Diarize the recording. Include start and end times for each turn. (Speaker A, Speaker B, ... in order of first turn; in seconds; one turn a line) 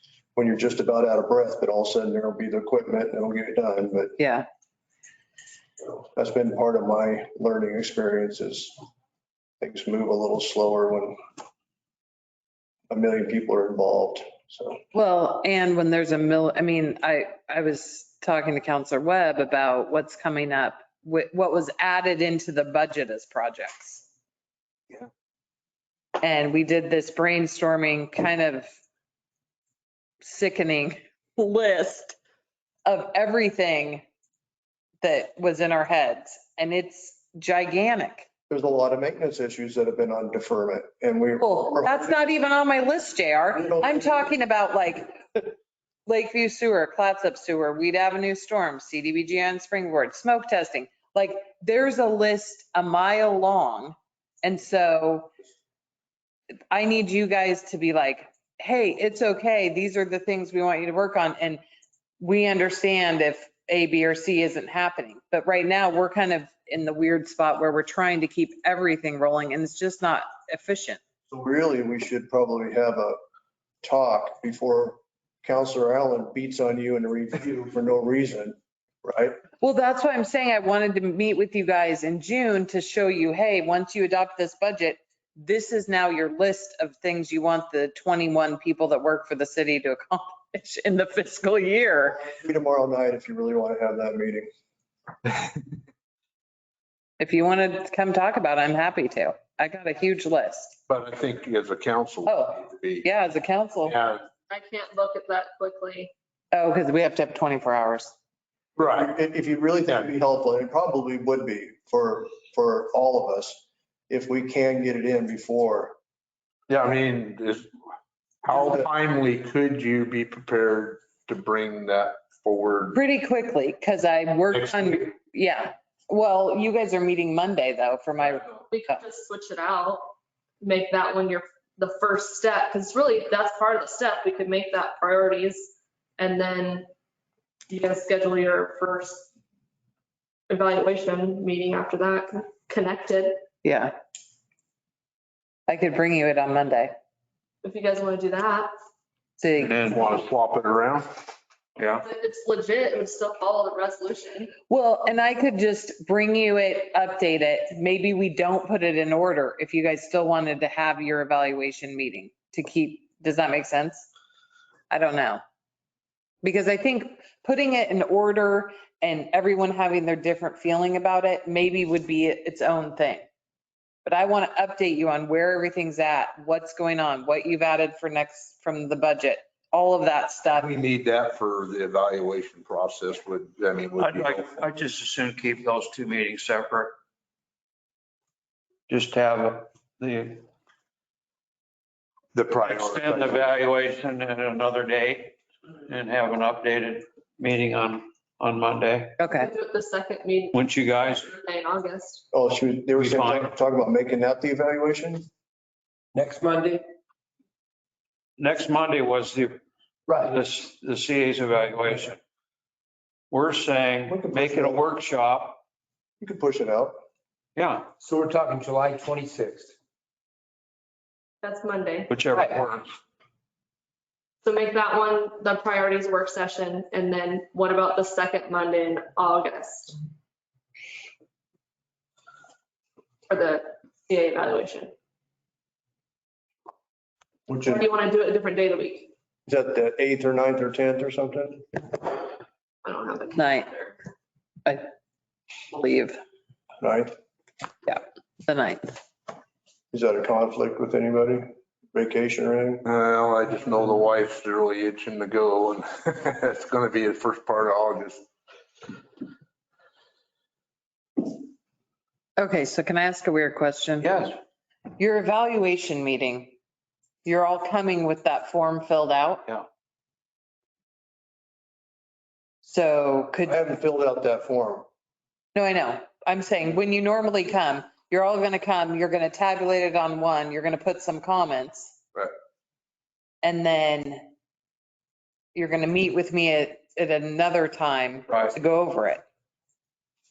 Speaker A: 0.3-4.2
Speaker B: 4.2-4.5
Speaker A: 6.1-8.8
Speaker A: 9.6-11.2
Speaker A: 12.9-14.8
Speaker B: 14.9-24.1
Speaker B: 26.2-28.7
Speaker B: 30.2-32.2
Speaker B: 32.9-34.0
Speaker B: 35.0-38.3
Speaker A: 38.5-42.2
Speaker B: 41.4-45.5
Speaker A: 43.6-44.3
Speaker B: 46.0-55.3
Speaker B: 56.7-61.6
Speaker B: 62.2-71.0
Speaker A: 71.3-73.2
Speaker A: 73.8-79.3
Speaker B: 79.6-92.2
Speaker A: 92.2-94.5
Speaker B: 97.2-100.8
Speaker C: 100.9-103.1
Speaker B: 102.2-103.9
Speaker C: 103.8-104.2
Speaker D: 104.5-106.1
Speaker B: 106.5-108.1
Speaker C: 108.8-109.1
Speaker A: 108.9-115.9
Speaker C: 116.7-117.7
Speaker C: 118.4-123.0
Speaker A: 118.5-118.8
Speaker B: 122.9-129.0
Speaker C: 124.5-125.0
Speaker D: 128.7-136.9
Speaker D: 137.7-139.3
Speaker D: 140.5-143.4
Speaker B: 143.6-143.9
Speaker B: 145.7-146.9
Speaker D: 147.6-148.7
Speaker B: 149.4-150.2
Speaker E: 149.6-150.0
Speaker C: 149.9-151.1
Speaker E: 151.8-152.1
Speaker D: 152.0-154.5
Speaker B: 154.7-164.1
Speaker B: 164.9-165.4
Speaker B: 166.4-173.2
Speaker B: 174.0-180.7
Speaker C: 180.4-184.5
Speaker E: 184.0-186.9
Speaker E: 188.9-190.4
Speaker C: 192.3-193.5
Speaker E: 192.6-199.2
Speaker B: 199.2-199.5
Speaker D: 199.4-200.5
Speaker E: 200.5-201.3
Speaker D: 201.4-202.2
Speaker A: 202.3-205.3
Speaker E: 202.9-203.5
Speaker F: 206.1-206.8
Speaker E: 208.4-209.6
Speaker F: 210.1-210.4
Speaker E: 210.2-212.2
Speaker E: 213.3-215.6
Speaker A: 214.1-214.8
Speaker A: 216.2-216.9
Speaker E: 217.6-217.9
Speaker F: 218.0-219.7
Speaker D: 221.4-222.1
Speaker E: 222.1-222.9
Speaker D: 224.4-230.0
Speaker D: 233.3-234.9
Speaker A: 237.5-237.8
Speaker D: 237.7-239.1
Speaker A: 239.5-241.7
Speaker D: 242.8-243.9
Speaker B: 243.3-243.7
Speaker B: 245.7-246.2
Speaker A: 246.8-247.1
Speaker B: 247.8-248.9
Speaker A: 249.9-252.8
Speaker C: 252.8-258.2
Speaker B: 262.4-264.3
Speaker E: 264.0-264.3
Speaker B: 264.9-266.6
Speaker B: 267.2-269.4
Speaker B: 272.6-273.6
Speaker A: 273.4-274.9
Speaker B: 275.5-282.0
Speaker B: 283.4-284.3
Speaker B: 285.5-289.2